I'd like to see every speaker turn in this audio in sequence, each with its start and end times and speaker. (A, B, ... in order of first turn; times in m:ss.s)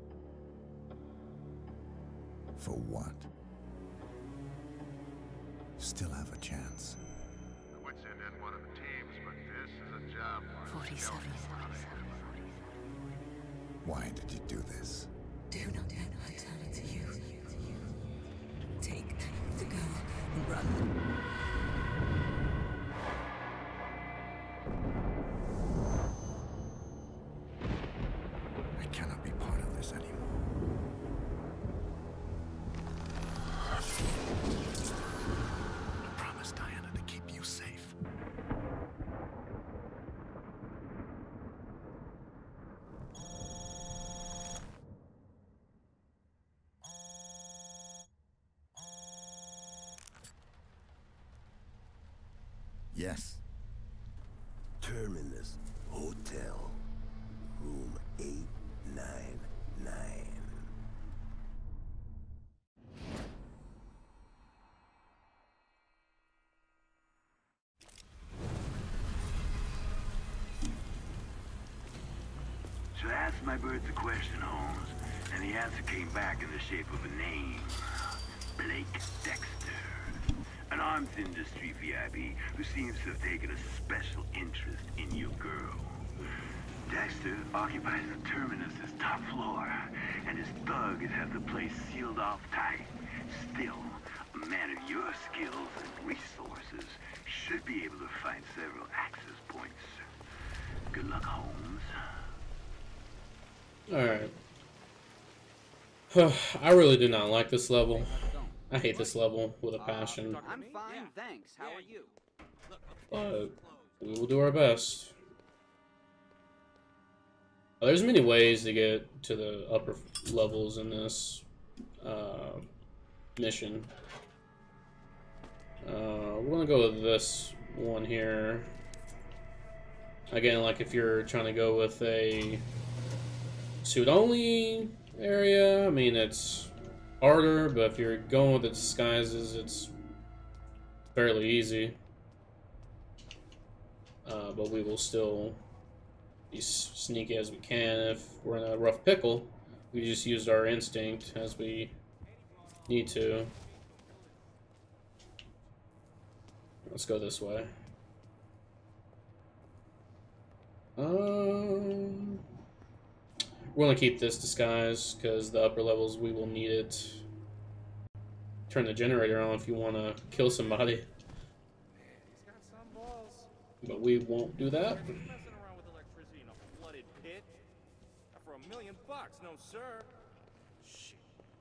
0:02.6-0:03.3 A
0:05.8-0:07.0 A
0:07.7-0:12.2 B
0:10.6-0:12.6 C
0:13.8-0:15.1 A
0:15.5-0:17.7 C
0:18.8-0:20.9 C
0:28.8-0:30.3 A
0:36.1-0:37.9 A
0:52.9-0:53.4 A
0:54.8-0:56.8 D
0:57.6-1:00.6 D
1:12.9-1:17.8 E
1:18.6-1:25.8 E
1:26.9-1:39.8 E
1:40.9-1:41.9 E
1:43.9-1:44.3 F
1:46.1-1:50.4 F
1:47.9-1:48.6 G
1:49.8-1:52.1 G
1:50.3-1:50.9 H
1:53.1-1:55.1 F
1:57.8-2:01.4 F
2:02.0-2:02.7 F
2:03.4-2:03.9 F
2:05.8-2:08.7 F
2:10.3-2:12.6 F
2:13.8-2:19.9 F
2:21.1-2:22.0 F
2:24.2-2:25.6 F
2:26.5-2:31.9 F
2:32.9-2:33.5 F
2:36.8-2:37.7 F
2:41.0-2:42.4 F
2:43.7-2:47.2 F
2:48.7-2:51.1 F
2:52.3-2:53.5 H
2:53.8-2:55.1 F
2:55.2-2:57.5 H
2:58.4-3:00.1 H